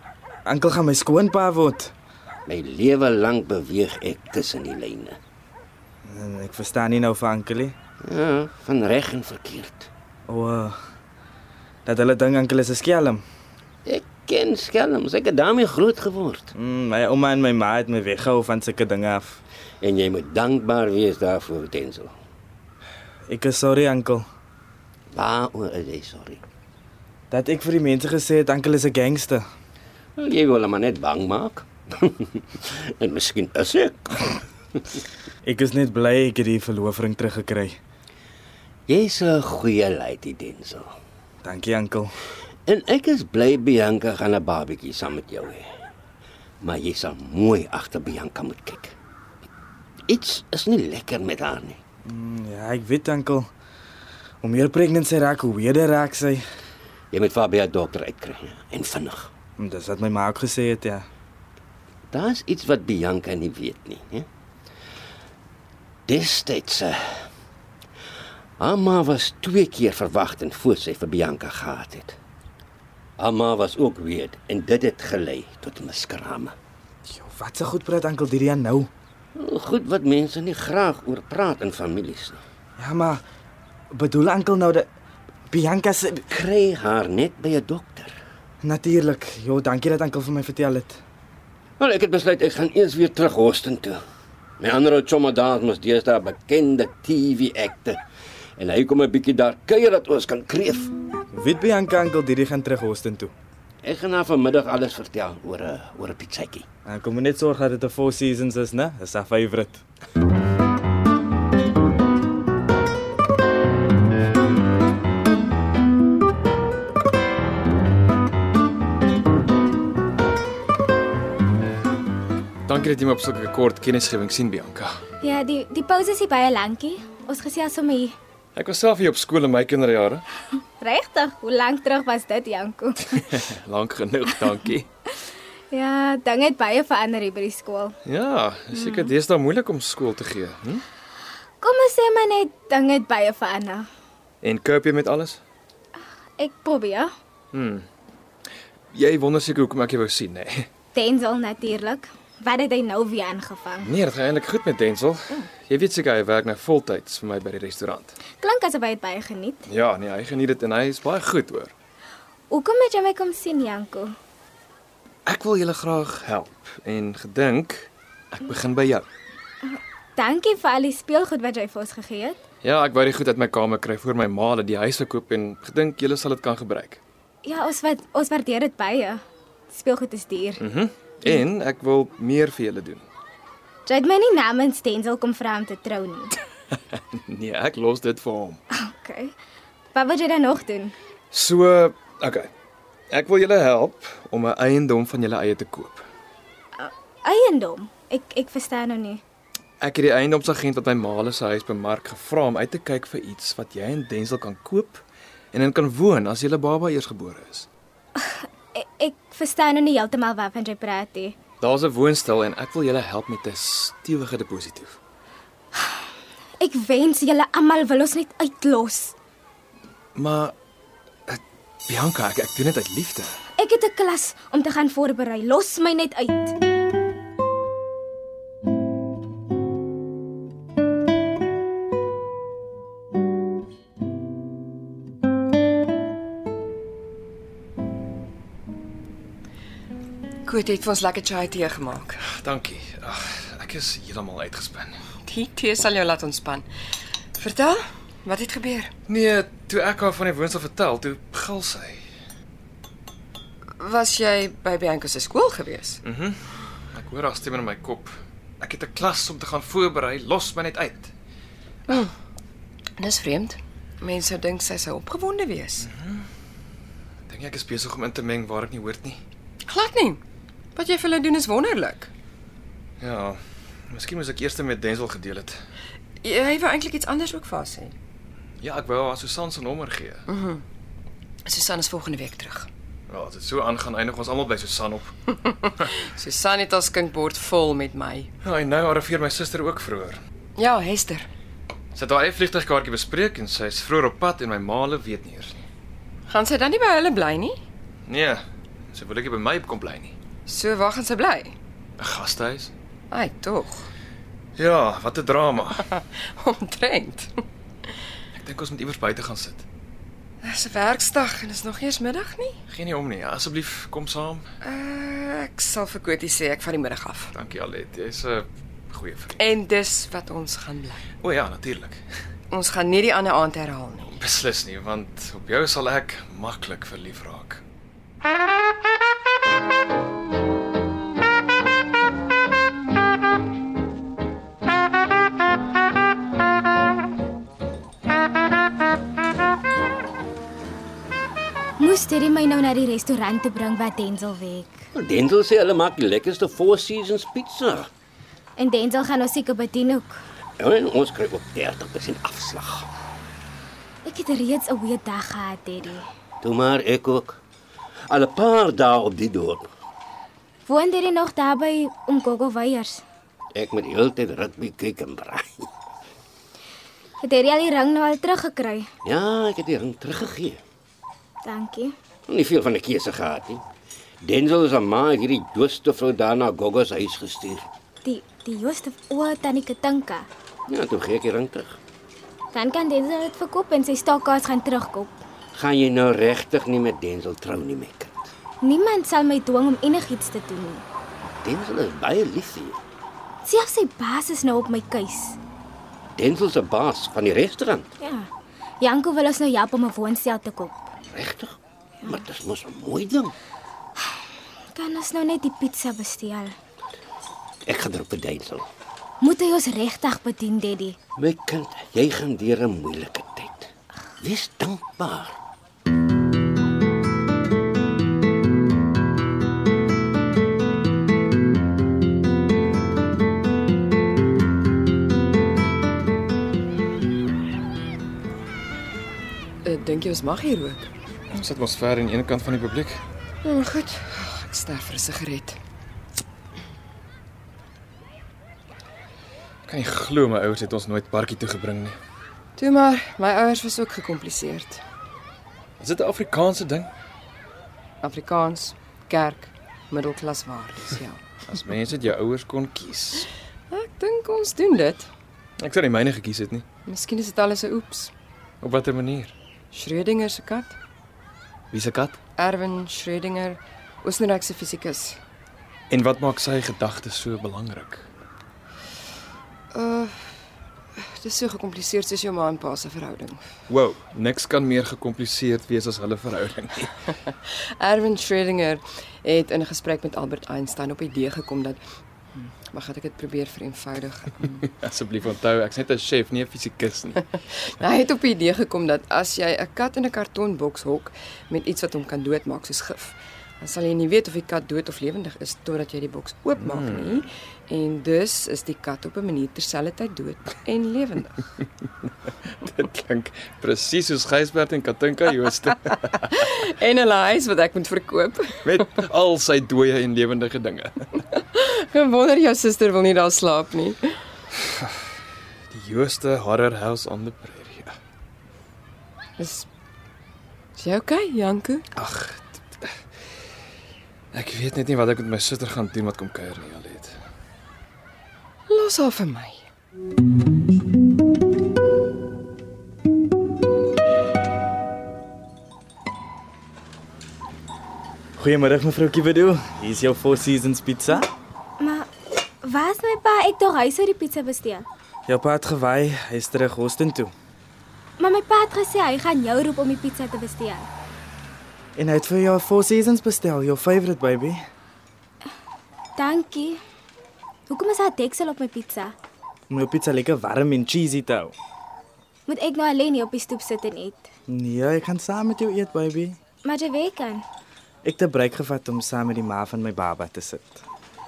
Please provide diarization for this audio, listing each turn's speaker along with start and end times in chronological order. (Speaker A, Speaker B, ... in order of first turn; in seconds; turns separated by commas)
Speaker A: 0.5-1.9, Speaker B: 2.5-5.2, Speaker A: 6.1-7.8, Speaker B: 8.0-9.9, Speaker A: 10.3-10.8, Speaker A: 11.9-13.2, Speaker B: 13.9-16.5, Speaker A: 16.6-19.4, Speaker B: 19.8-22.1, Speaker A: 23.3-24.2, Speaker B: 25.1-26.4, Speaker A: 27.3-29.4, Speaker B: 30.2-35.0, Speaker A: 35.5-37.8, Speaker B: 38.9-40.9, Speaker A: 41.4-42.1, Speaker B: 42.7-45.7, Speaker B: 46.6-49.0, Speaker B: 50.1-51.8, Speaker A: 52.1-53.5, Speaker A: 54.4-56.4, Speaker B: 57.1-59.3, Speaker A: 59.6-61.0, Speaker B: 62.1-64.3, Speaker B: 66.1-67.2, Speaker B: 68.6-72.2, Speaker B: 73.2-76.5, Speaker A: 77.1-78.9, Speaker B: 79.4-82.4, Speaker A: 82.8-83.2, Speaker A: 83.9-84.9, Speaker A: 85.5-86.2, Speaker B: 86.3-88.2, Speaker A: 88.6-91.0, Speaker B: 91.8-94.0, Speaker B: 94.6-98.0, Speaker B: 98.6-100.9, Speaker A: 101.3-103.3, Speaker B: 103.8-106.7, Speaker A: 106.9-109.8, Speaker C: 122.7-125.0, Speaker D: 125.2-128.2, Speaker C: 128.6-130.2, Speaker D: 130.8-133.2, Speaker C: 133.1-134.9, Speaker D: 135.7-137.9, Speaker C: 138.1-140.8, Speaker D: 138.8-139.1, Speaker D: 141.6-143.9, Speaker C: 144.4-145.4, Speaker D: 146.4-147.1, Speaker C: 147.5-147.9, Speaker C: 148.9-150.7, Speaker D: 150.9-153.9, Speaker C: 153.8-158.2, Speaker D: 158.4-159.6, Speaker C: 159.7-161.7, Speaker D: 162.5-164.1, Speaker C: 165.3-169.1, Speaker D: 169.7-172.4, Speaker C: 172.6-177.0, Speaker D: 177.4-180.6, Speaker C: 180.6-183.1, Speaker D: 183.9-186.3, Speaker C: 186.9-188.6, Speaker D: 188.7-189.3, Speaker D: 189.9-190.9, Speaker C: 191.3-192.5, Speaker C: 193.1-196.1, Speaker D: 196.8-199.2, Speaker C: 199.8-205.0, Speaker C: 205.5-207.7, Speaker D: 208.2-211.4, Speaker C: 211.6-215.0, Speaker D: 216.6-219.2, Speaker C: 220.2-220.5, Speaker C: 221.3-223.4, Speaker D: 223.6-226.5, Speaker E: 240.4-242.2, Speaker C: 242.2-244.9, Speaker E: 245.3-246.7, Speaker E: 247.4-248.9, Speaker C: 249.1-252.0, Speaker E: 253.8-256.0, Speaker C: 256.0-256.4, Speaker C: 256.9-261.1, Speaker E: 261.9-262.1, Speaker E: 263.0-265.9, Speaker C: 265.8-266.3, Speaker C: 267.3-269.2, Speaker E: 269.7-270.2, Speaker E: 270.8-272.1, Speaker C: 273.0-275.6, Speaker E: 276.2-277.9, Speaker C: 278.6-280.2, Speaker E: 280.3-280.6, Speaker E: 281.5-282.7, Speaker C: 283.1-285.4, Speaker E: 285.4-288.3, Speaker C: 288.4-290.2, Speaker E: 290.6-291.3, Speaker C: 291.9-295.6, Speaker E: 296.3-297.6, Speaker C: 298.1-300.1, Speaker E: 300.5-301.6, Speaker C: 302.0-302.7, Speaker E: 303.1-303.9, Speaker C: 304.6-305.9, Speaker E: 305.8-307.4, Speaker C: 308.3-309.6, Speaker E: 310.4-312.6, Speaker C: 312.7-314.4, Speaker E: 314.6-317.3, Speaker C: 317.3-319.4, Speaker E: 319.4-321.1, Speaker C: 321.2-322.0, Speaker E: 322.5-324.2, Speaker C: 324.2-327.6, Speaker D: 341.8-344.9, Speaker B: 344.9-347.9, Speaker D: 348.6-350.2, Speaker B: 350.6-352.9, Speaker D: 354.1-356.1, Speaker B: 356.4-357.4, Speaker B: 358.1-359.7, Speaker D: 360.7-363.0, Speaker B: 363.5-365.7, Speaker D: 367.2-368.9, Speaker B: 369.1-370.6, Speaker D: 371.4-371.9, Speaker B: 372.3-373.6, Speaker B: 374.2-377.7, Speaker D: 378.0-380.3, Speaker B: 380.7-381.8, Speaker D: 382.5-385.2, Speaker B: 385.5-388.3, Speaker D: 388.6-390.8, Speaker B: 391.3-392.8, Speaker D: 393.4-395.4, Speaker B: 396.2-397.9, Speaker D: 398.0-398.3, Speaker D: 398.8-400.9, Speaker B: 401.1-403.3, Speaker D: 404.7-406.6, Speaker B: 407.7-408.7, Speaker D: 409.2-411.0, Speaker B: 411.2-415.4, Speaker E: 429.6-430.9, Speaker C: 431.3-433.0, Speaker E: 433.4-435.6, Speaker C: 439.7-442.0, Speaker E: 442.6-444.8, Speaker C: 445.8-446.9, Speaker E: 448.0-451.2, Speaker C: 451.4-453.3, Speaker E: 453.7-455.1, Speaker C: 455.6-456.6, Speaker E: 456.9-458.1, Speaker C: 458.6-459.3, Speaker E: 459.7-460.8, Speaker C: 461.7-462.2, Speaker E: 462.4-465.2, Speaker C: 465.9-468.1, Speaker E: 469.7-470.4, Speaker E: 471.0-473.4, Speaker C: 473.7-477.0, Speaker E: 477.3-481.8, Speaker E: 482.4-484.7, Speaker C: 484.6-487.4, Speaker E: 487.8-501.4, Speaker C: 496.6-497.2, Speaker C: 502.5-506.2, Speaker E: 505.9-508.9, Speaker C: 508.6-511.1, Speaker E: 511.1-514.2, Speaker C: 514.6-514.9, Speaker C: 515.7-518.0, Speaker E: 519.4-519.7, Speaker E: 520.8-521.9, Speaker C: 522.0-522.9, Speaker C: 524.3-527.2, Speaker E: 528.7-529.6, Speaker A: 538.4-541.3, Speaker D: 541.8-542.1, Speaker D: 542.6-544.9, Speaker A: 545.3-547.3, Speaker D: 548.2-550.9, Speaker A: 552.0-554.6, Speaker D: 556.2-556.8, Speaker D: 557.7-559.1, Speaker A: 559.7-561.5, Speaker D: 562.5-564.3, Speaker A: 564.5-566.4, Speaker D: 566.6-567.4, Speaker A: 568.0-570.8